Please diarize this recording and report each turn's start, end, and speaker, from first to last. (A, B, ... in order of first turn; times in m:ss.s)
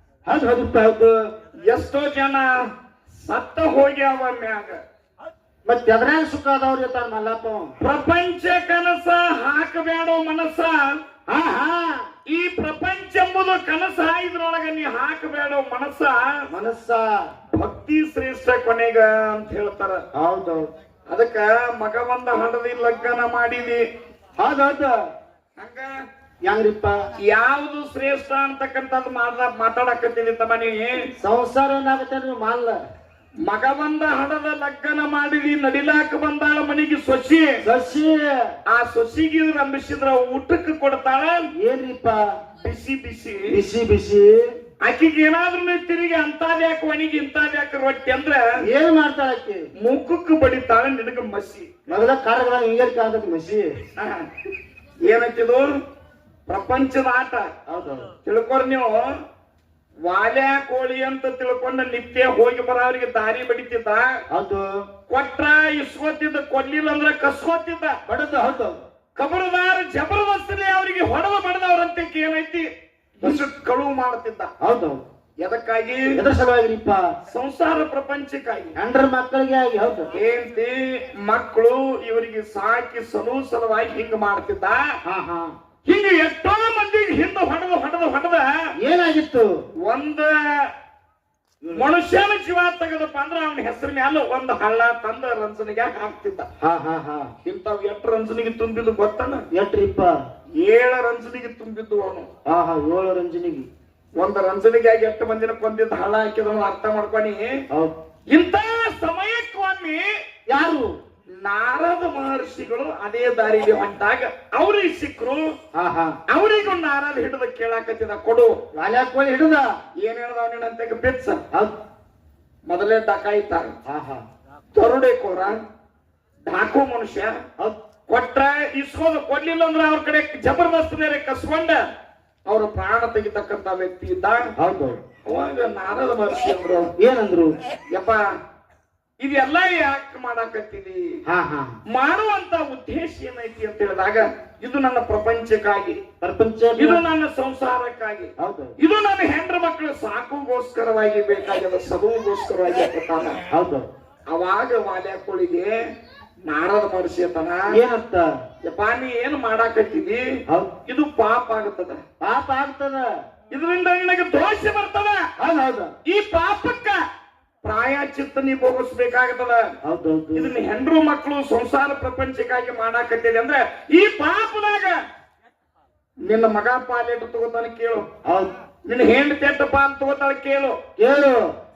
0:00.2-0:01.1 A
0:01.6-0:02.5 B
0:03.2-0:04.8 B
0:05.6-0:07.7 A
0:07.8-0:11.0 B
0:11.3-0:12.0 A
0:12.3-0:16.4 B
0:16.5-0:17.2 A
0:17.5-0:20.0 B
0:20.1-0:20.7 A
0:21.1-0:23.8 B
0:24.4-0:24.9 A
0:25.6-0:25.9 B
0:26.4-0:27.0 A
0:27.2-0:30.9 B
0:31.2-0:32.8 A
0:33.4-0:37.6 B
0:37.6-0:38.5 A
0:38.7-0:41.4 B
0:41.6-0:42.3 A
0:42.6-0:43.6 B
0:43.5-0:44.4 A
0:44.8-0:48.4 B
0:48.6-0:49.6 A
0:49.8-0:51.7 B
0:51.9-0:53.7 A
0:54.0-0:54.2 B
0:55.1-0:55.6 B
0:56.5-0:57.5 B
0:57.7-0:58.1 A
0:58.2-0:59.0 B
1:00.0-1:04.2 B
1:04.3-1:04.8 A
1:05.1-1:08.0 B
1:08.1-1:08.8 A
1:09.2-1:12.7 B
1:13.2-1:14.5 B
1:14.6-1:15.0 A
1:15.4-1:16.1 B
1:16.2-1:17.1 A
1:17.3-1:18.8 B
1:18.8-1:20.1 A
1:20.1-1:24.9 B
1:25.0-1:25.5 A
1:25.8-1:28.5 B
1:28.8-1:29.5 A
1:29.8-1:30.7 B
1:31.7-1:36.5 B
1:36.6-1:37.3 A
1:37.4-1:39.4 B
1:39.5-1:40.2 A
1:40.6-1:42.3 B
1:42.5-1:43.7 A
1:44.2-1:47.5 B
1:48.3-1:50.1 B
1:50.5-1:50.9 A
1:51.4-1:55.4 B
1:55.7-1:56.2 A
1:56.3-1:58.5 B
1:58.7-1:59.7 A
2:00.0-2:01.4 B
2:02.7-2:03.7 B
2:03.9-2:04.2 A
2:04.7-2:05.5 B
2:06.5-2:07.4 B
2:08.1-2:11.8 B
2:12.5-2:14.4 B
2:14.6-2:15.0 A
2:15.2-2:16.9 B
2:17.0-2:17.6 A
2:17.9-2:18.2 B
2:19.2-2:21.0 B
2:21.3-2:21.8 A
2:21.9-2:26.0 B
2:26.2-2:27.0 A
2:26.8-2:33.4 B
2:28.4-2:28.7 A
2:33.5-2:33.9 A
2:34.3-2:35.7 B
2:36.4-2:37.6 B
2:37.7-2:38.3 A
2:38.6-2:40.2 B
2:40.8-2:42.0 B
2:42.2-2:43.1 A
2:43.5-2:45.2 B
2:45.4-2:45.9 A
2:46.0-2:47.0 B
2:47.6-2:49.6 B
2:49.8-2:50.5 A
2:50.4-2:54.9 B
2:56.3-2:58.0 B
2:58.2-2:58.5 A
2:58.8-3:00.8 B
3:01.0-3:01.5 A